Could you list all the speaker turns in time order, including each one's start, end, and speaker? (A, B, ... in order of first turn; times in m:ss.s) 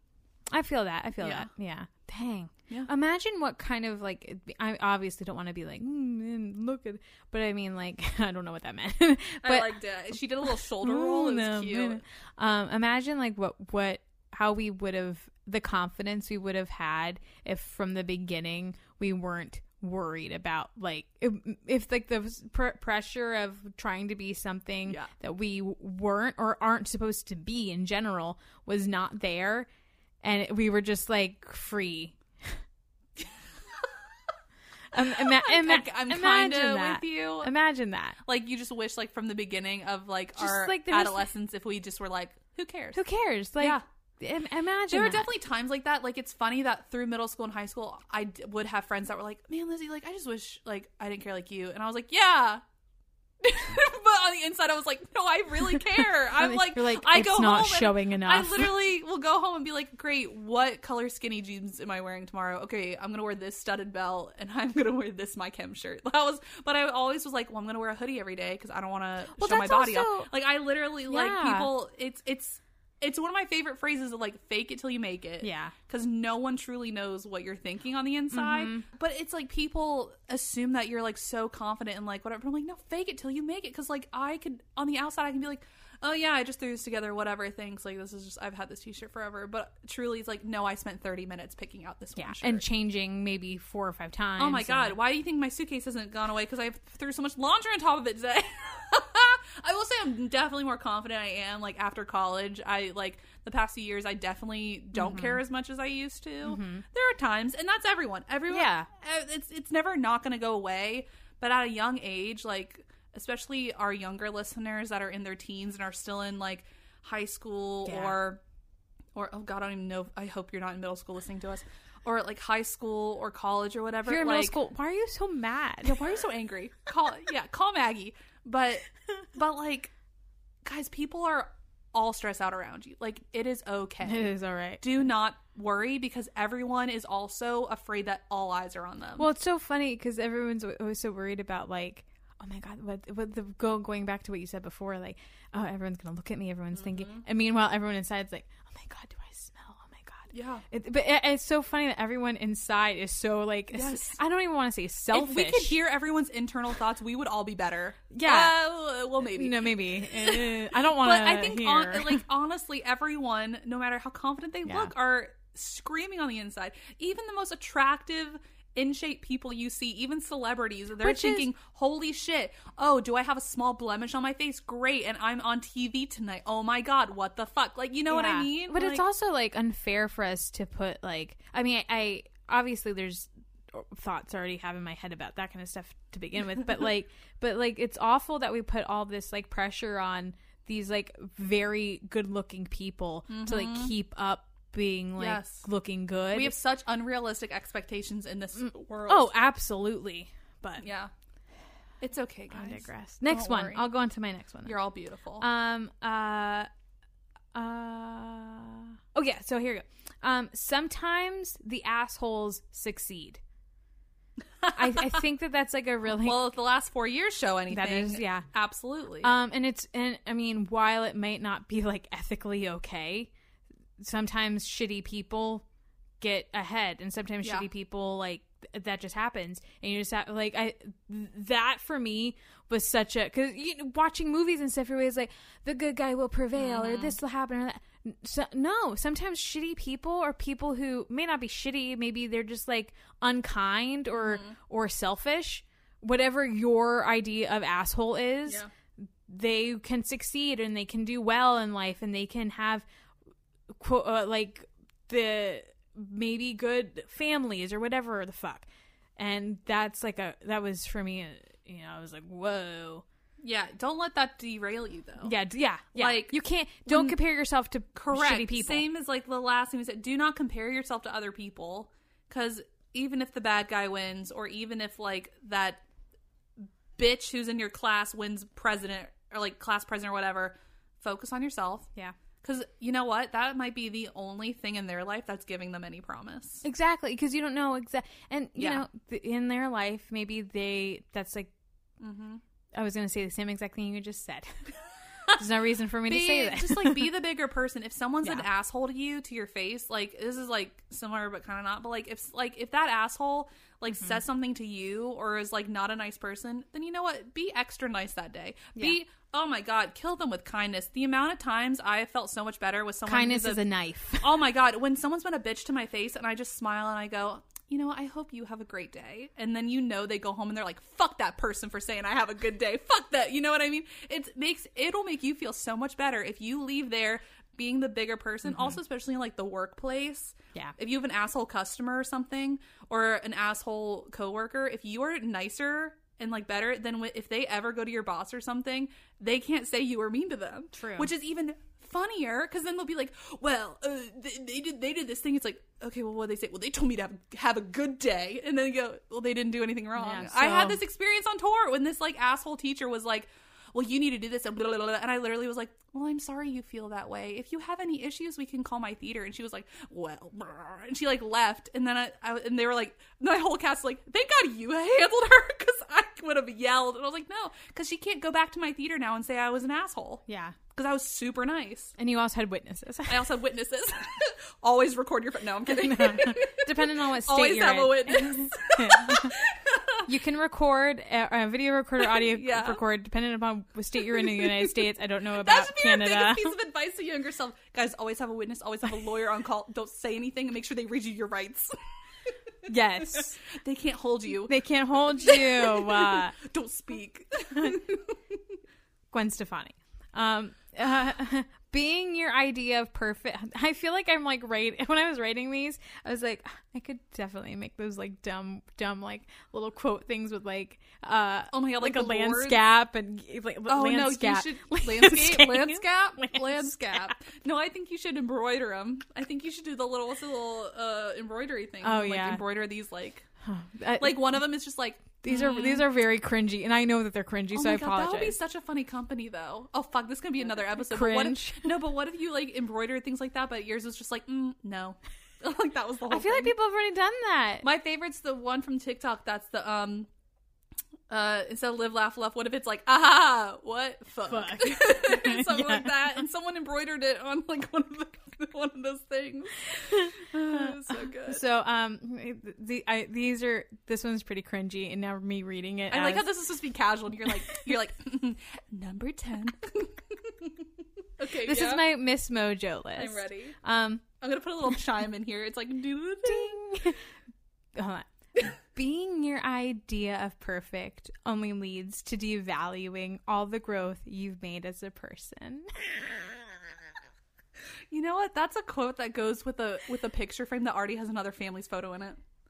0:00.5-0:09.8 A
0:01.2-0:01.5 B
0:09.4-0:12.0 B
0:10.4-0:29.7 A
0:24.8-0:25.1 B
0:30.2-0:32.6 A
0:34.9-0:38.2 A
0:35.0-0:37.5 B
0:38.2-0:43.0 B
0:40.4-0:41.3 A
0:42.9-0:45.3 A
0:44.9-0:52.6 B
0:53.4-1:32.6 B
0:55.7-0:58.8 A
1:09.3-1:10.3 A
1:11.1-1:11.7 A
1:15.4-1:15.7 A
1:18.3-1:18.8 A
1:32.2-1:35.0 A
1:34.4-1:58.4 B
1:44.9-1:45.4 A
1:46.4-1:46.8 A
1:48.5-1:48.9 A
1:57.8-1:58.2 A
1:59.1-2:04.6 B
2:04.0-2:06.0 A
2:05.8-2:09.9 B
2:10.6-2:14.3 B
2:14.0-2:14.8 A
2:14.8-2:19.3 B
2:19.2-2:35.8 A
2:26.8-2:27.2 B
2:30.3-2:30.6 B
2:33.7-2:34.2 B
2:35.1-2:59.0 B
2:38.1-2:38.6 A
2:39.3-2:42.2 A
2:44.6-2:44.9 A
2:51.0-2:51.5 A
2:58.1-3:16.6 A
3:13.3-3:13.9 B
3:15.2-3:15.6 B
3:16.3-3:19.3 B
3:19.1-3:20.8 A
3:20.8-3:21.1 B
3:22.0-3:23.9 B
3:22.5-3:24.8 A
3:24.6-3:25.4 B
3:25.4-3:26.7 A
3:27.5-3:33.4 A
3:34.6-3:35.2 B
3:34.7-3:36.4 A
3:36.1-3:39.3 B
3:37.7-3:38.5 A
3:39.2-3:43.3 A
3:44.0-3:45.6 A
3:46.2-4:08.6 A
3:56.6-3:57.2 B
4:04.2-4:04.6 B
4:09.2-4:12.8 A
4:13.7-4:18.6 A
4:19.2-4:23.0 A
4:23.4-4:25.3 B
4:25.2-4:28.8 A
4:25.9-4:26.3 B
4:26.9-4:27.1 B
4:27.9-4:35.8 B
4:37.0-4:41.9 B
4:42.4-4:46.6 B
4:46.6-4:51.5 A
4:48.6-4:48.8 B
4:52.0-4:52.4 B
4:52.7-4:54.6 A
4:55.4-4:57.1 A
4:56.1-5:13.6 B
5:04.0-5:04.2 A
5:13.0-5:14.3 A
5:14.2-6:12.0 B
5:28.4-5:28.8 A
5:40.7-5:41.1 A
5:50.0-5:50.8 A
6:10.3-6:10.6 A
6:12.0-6:13.2 A
6:13.1-6:20.1 B
6:15.7-6:19.3 A
6:20.1-6:26.6 A
6:22.0-6:22.8 B
6:24.0-6:31.7 B
6:32.7-6:33.4 A
6:33.4-6:34.5 B
6:34.4-6:36.4 A
6:35.2-6:38.4 B
6:39.1-6:57.1 A
6:51.5-6:52.6 B
6:53.7-7:03.2 B
7:01.8-7:02.4 A
7:03.4-7:04.4 A
7:04.0-7:05.8 B
7:05.2-7:08.4 A
7:07.5-7:16.5 B
7:10.8-7:11.7 A
7:16.1-7:17.6 A
7:17.6-7:20.1 B
7:21.1-7:31.4 B
7:24.3-7:25.9 A
7:29.9-7:36.3 A
7:35.9-7:40.6 B
7:41.2-7:41.8 B
7:41.4-7:44.0 A
7:43.0-7:43.6 B
7:44.2-7:46.6 B
7:46.2-7:47.0 A
7:47.7-7:55.7 A
7:57.9-8:02.2 B